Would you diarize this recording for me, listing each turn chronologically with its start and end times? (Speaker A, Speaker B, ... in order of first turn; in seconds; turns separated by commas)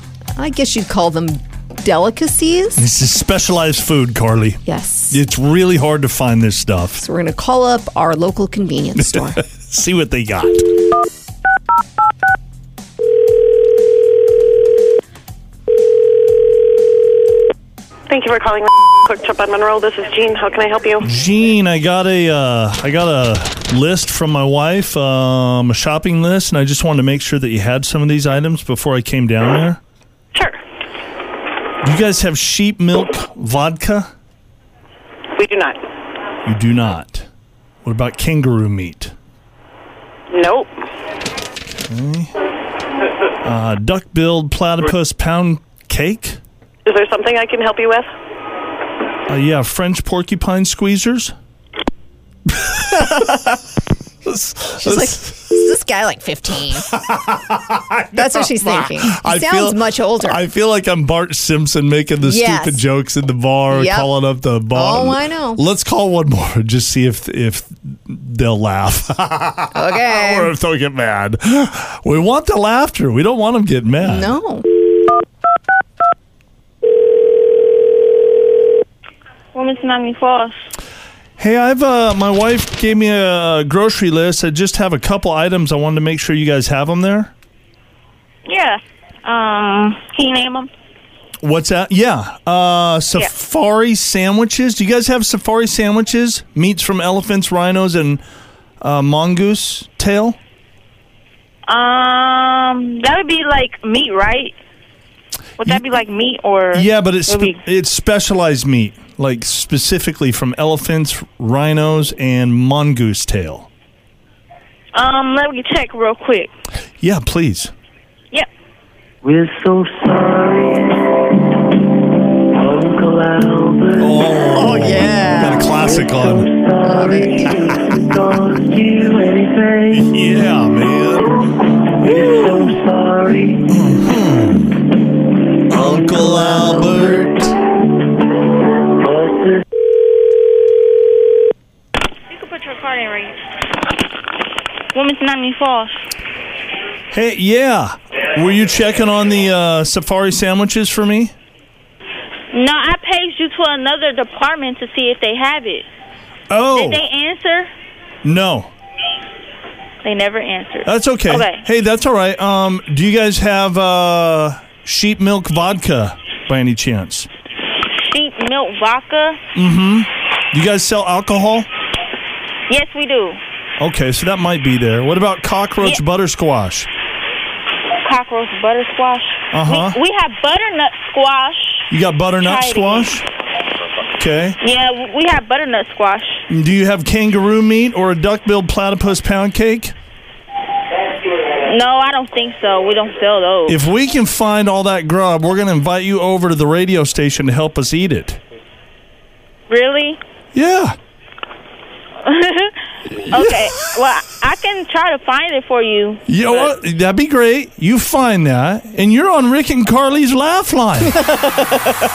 Speaker A: 0.3-2.8, Speaker B: 2.8-7.0, Speaker A: 4.6-5.2, Speaker A: 7.0-9.4, Speaker B: 9.0-10.7, Speaker C: 18.1-21.1, Speaker B: 21.0-29.8, Speaker B: 31.8-34.1, Speaker C: 35.4-35.8, Speaker B: 36.4-37.3, Speaker B: 37.8-39.1, Speaker C: 40.3-40.7, Speaker B: 41.8-42.3, Speaker B: 43.4-46.4, Speaker C: 46.8-48.1, Speaker B: 49.3-51.3, Speaker B: 52.6-53.3, Speaker B: 54.2-55.4, Speaker A: 54.8-56.9, Speaker B: 56.8-74.4, Speaker A: 58.1-60.4, Speaker A: 62.2-62.8, Speaker A: 63.7-64.1, Speaker A: 64.7-65.6, Speaker A: 69.7-70.5, Speaker A: 74.0-74.7, Speaker D: 79.5-80.5, Speaker B: 81.4-87.3, Speaker D: 88.5-90.7, Speaker B: 91.4-98.2, Speaker B: 98.8-100.4, Speaker D: 101.7-104.5, Speaker D: 105.6-107.6, Speaker B: 106.7-113.7, Speaker D: 114.9-116.5, Speaker B: 117.0-117.7, Speaker E: 119.2-121.0, Speaker E: 122.5-124.5, Speaker B: 124.0-126.5, Speaker A: 124.5-125.8, Speaker E: 125.8-130.0, Speaker A: 126.8-127.5, Speaker B: 129.9-132.8, Speaker E: 132.0-133.6, Speaker B: 133.7-134.8, Speaker B: 135.7-137.5, Speaker E: 139.0-139.6, Speaker D: 142.3-143.3, Speaker D: 144.9-146.0, Speaker B: 147.1-151.3, Speaker D: 152.5-155.8, Speaker B: 156.5-157.0, Speaker D: 156.7-157.7, Speaker B: 158.2-158.7, Speaker D: 160.0-161.6, Speaker B: 160.8-167.3, Speaker D: 167.9-169.4, Speaker B: 169.5-171.7, Speaker D: 172.7-173.4, Speaker B: 173.8-176.9, Speaker D: 178.0-181.9, Speaker B: 179.5-180.0, Speaker B: 181.9-183.2, Speaker D: 182.4-183.1, Speaker B: 184.2-184.6, Speaker D: 184.6-186.4, Speaker B: 186.5-189.9, Speaker D: 191.6-193.8, Speaker B: 193.7-198.4, Speaker D: 199.7-200.2, Speaker B: 200.5-200.9, Speaker D: 202.2-202.7, Speaker D: 203.3-206.7, Speaker B: 203.3-203.7, Speaker B: 206.3-211.2, Speaker A: 211.2-211.9